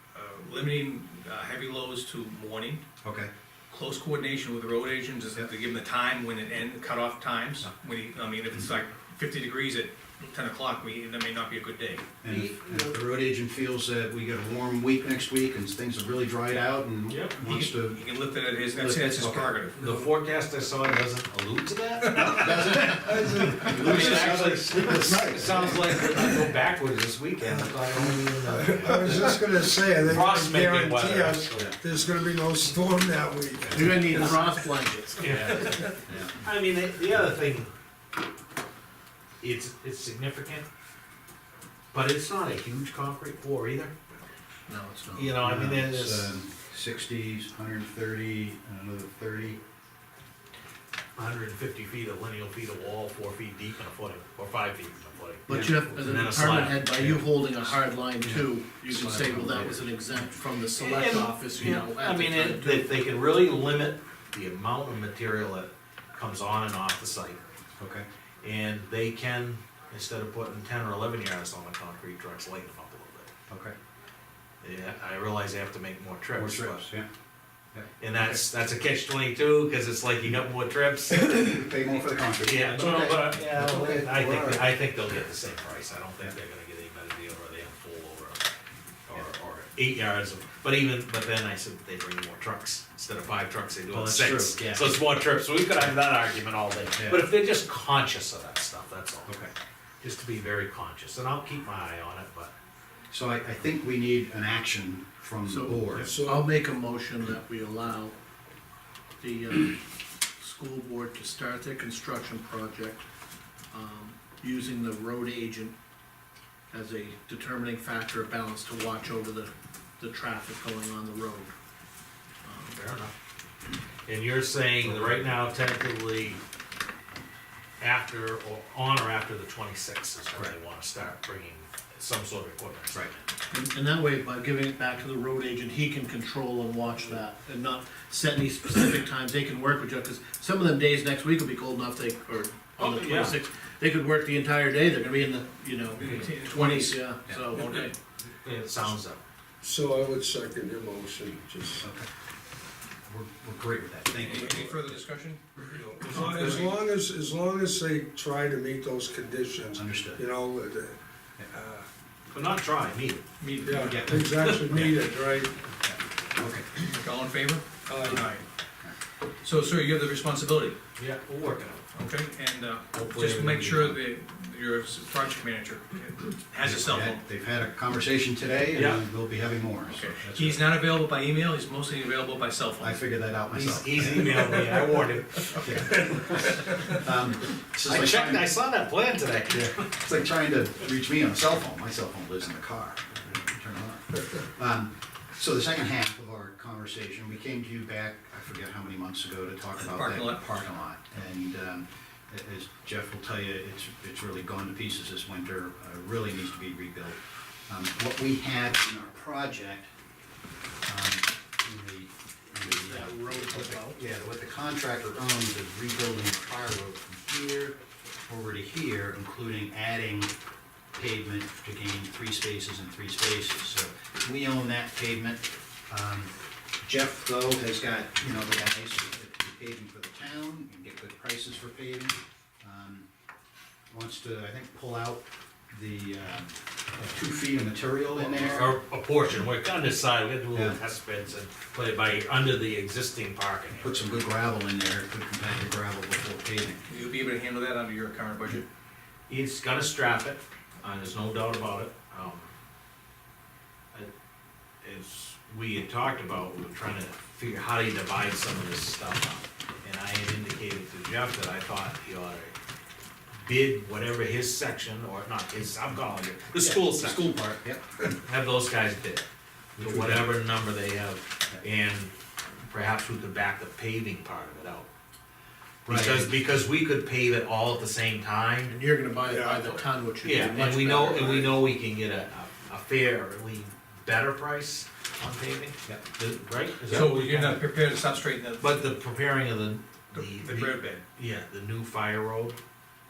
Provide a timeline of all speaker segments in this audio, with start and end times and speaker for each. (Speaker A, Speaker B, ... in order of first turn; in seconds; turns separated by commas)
Speaker A: 0.1-2.8, Speaker B: 3.0-3.3, Speaker A: 3.7-12.1, Speaker B: 12.2-18.0, Speaker C: 12.3-12.9, Speaker C: 17.1-17.4, Speaker A: 17.4-20.1, Speaker B: 18.7-19.5, Speaker C: 19.8-29.4, Speaker B: 22.1-26.0, Speaker D: 23.0-24.4, Speaker D: 27.4-34.2, Speaker C: 30.0-31.8, Speaker E: 33.7-35.8, Speaker C: 35.2-37.7, Speaker B: 36.1-36.3, Speaker C: 39.4-40.7, Speaker C: 41.9-43.9, Speaker E: 44.7-45.4, Speaker C: 45.1-46.3, Speaker B: 45.4-49.6, Speaker C: 51.2-57.2, Speaker E: 55.5-62.9, Speaker B: 58.3-59.9, Speaker C: 60.8-67.4, Speaker B: 67.8-68.0, Speaker C: 68.4-73.3, Speaker B: 73.5-73.7, Speaker C: 74.6-76.8, Speaker B: 76.3-77.1, Speaker B: 77.7-78.4, Speaker C: 78.0-81.5, Speaker B: 81.2-84.6, Speaker C: 82.4-88.4, Speaker C: 89.1-99.3, Speaker B: 93.9-95.0, Speaker B: 97.0-97.2, Speaker B: 99.2-99.5, Speaker C: 100.0-102.5, Speaker B: 103.1-106.1, Speaker E: 105.5-108.2, Speaker D: 105.9-106.5, Speaker E: 109.2-113.1, Speaker E: 113.7-115.7, Speaker E: 116.7-121.5, Speaker E: 122.4-122.8, Speaker C: 122.7-123.1, Speaker C: 124.1-126.4, Speaker B: 124.9-125.2, Speaker C: 127.8-133.2, Speaker E: 133.5-147.9, Speaker C: 142.8-143.4, Speaker A: 145.9-147.9, Speaker C: 148.4-149.2, Speaker D: 149.6-151.9, Speaker B: 151.8-152.1, Speaker B: 153.1-154.7, Speaker A: 154.2-156.7, Speaker D: 156.0-161.0, Speaker B: 159.7-160.2, Speaker D: 161.5-161.8, Speaker C: 162.3-163.2, Speaker A: 163.4-164.0, Speaker D: 163.6-165.5, Speaker B: 163.8-164.2, Speaker C: 164.1-164.9, Speaker B: 165.8-166.7, Speaker A: 166.8-168.4, Speaker D: 167.8-168.2, Speaker A: 169.4-170.8, Speaker C: 171.0-171.9, Speaker A: 171.9-177.2, Speaker C: 172.9-174.0, Speaker B: 176.6-180.6, Speaker C: 178.8-179.0, Speaker A: 179.9-183.0, Speaker B: 182.8-184.6, Speaker C: 183.5-186.9, Speaker B: 185.5-188.5, Speaker C: 187.8-189.8, Speaker B: 189.5-209.9, Speaker A: 199.8-200.5, Speaker B: 210.8-220.3, Speaker E: 212.6-214.0, Speaker B: 220.9-226.3, Speaker B: 226.8-233.1, Speaker B: 233.9-238.7, Speaker C: 238.4-244.0, Speaker B: 240.5-240.8, Speaker B: 243.8-246.8, Speaker A: 246.9-248.7, Speaker C: 249.3-252.5, Speaker C: 254.8-262.5, Speaker C: 263.4-267.4, Speaker A: 266.6-268.1, Speaker C: 268.2-269.2, Speaker C: 269.8-272.1, Speaker B: 269.8-270.3, Speaker C: 272.7-274.9, Speaker B: 275.9-276.4, Speaker C: 275.9-278.8, Speaker E: 278.7-281.5, Speaker C: 280.2-287.6, Speaker A: 286.9-288.9, Speaker C: 288.6-292.6, Speaker A: 290.1-291.0